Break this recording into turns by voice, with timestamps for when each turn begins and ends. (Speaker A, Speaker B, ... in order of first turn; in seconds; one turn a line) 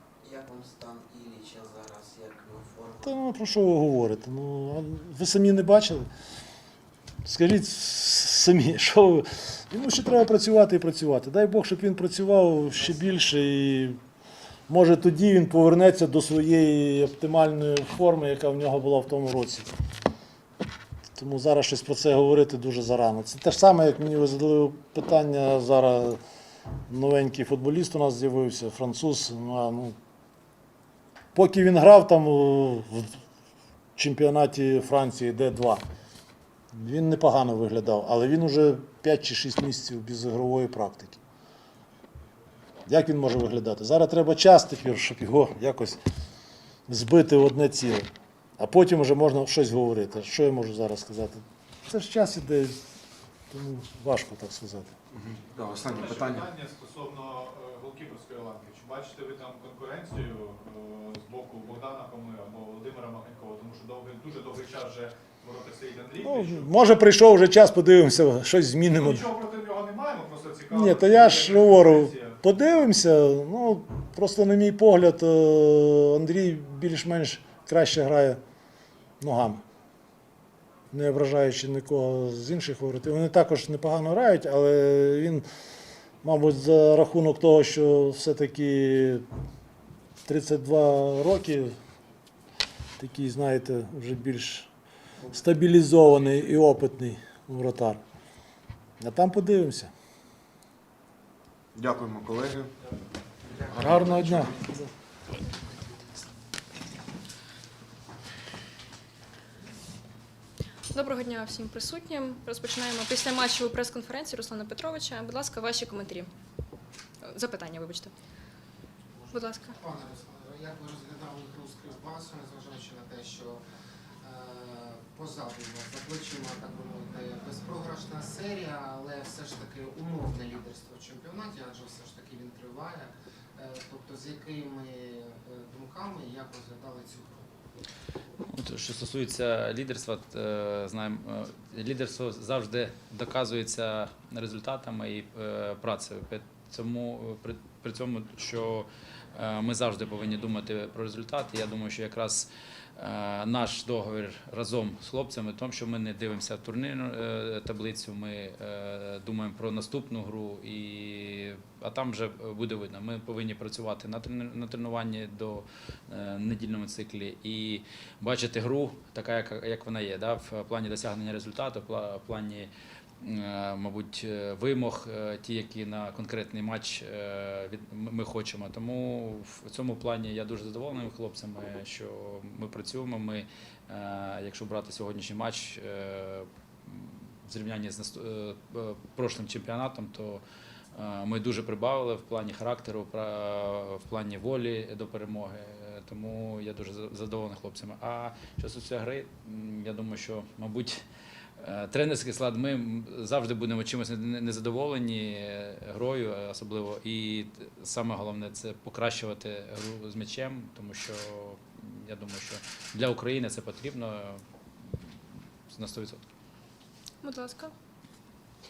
Speaker A: 0.2-3.1
Speaker B: 3.0-6.0
Speaker B: 7.2-14.0
Speaker B: 14.7-19.7
Speaker B: 21.1-26.2
Speaker B: 26.9-29.9
Speaker B: 31.3-33.2
Speaker B: 34.0-35.8
Speaker B: 36.7-41.2
Speaker B: 42.9-46.0
Speaker B: 46.9-48.1
Speaker B: 48.6-52.8
Speaker B: 53.5-54.9
Speaker C: 55.1-56.5
Speaker D: 55.6-66.9
Speaker B: 66.2-69.3
Speaker D: 68.9-72.4
Speaker B: 70.7-78.4
Speaker B: 79.2-79.6
Speaker B: 80.9-85.4
Speaker B: 86.2-89.2
Speaker B: 90.2-91.7
Speaker B: 93.0-94.7
Speaker B: 95.3-98.0
Speaker B: 99.0-99.9
Speaker C: 101.7-102.7
Speaker A: 103.5-104.4
Speaker C: 103.7-104.5
Speaker B: 103.7-104.7
Speaker E: 110.9-116.3
Speaker E: 117.2-118.1
Speaker F: 119.1-123.6
Speaker E: 119.3-119.8
Speaker F: 124.2-137.4
Speaker G: 138.4-190.4
Speaker G: 190.9-201.0
Speaker G: 201.6-215.2
Speaker G: 215.7-216.2
Speaker E: 217.2-217.7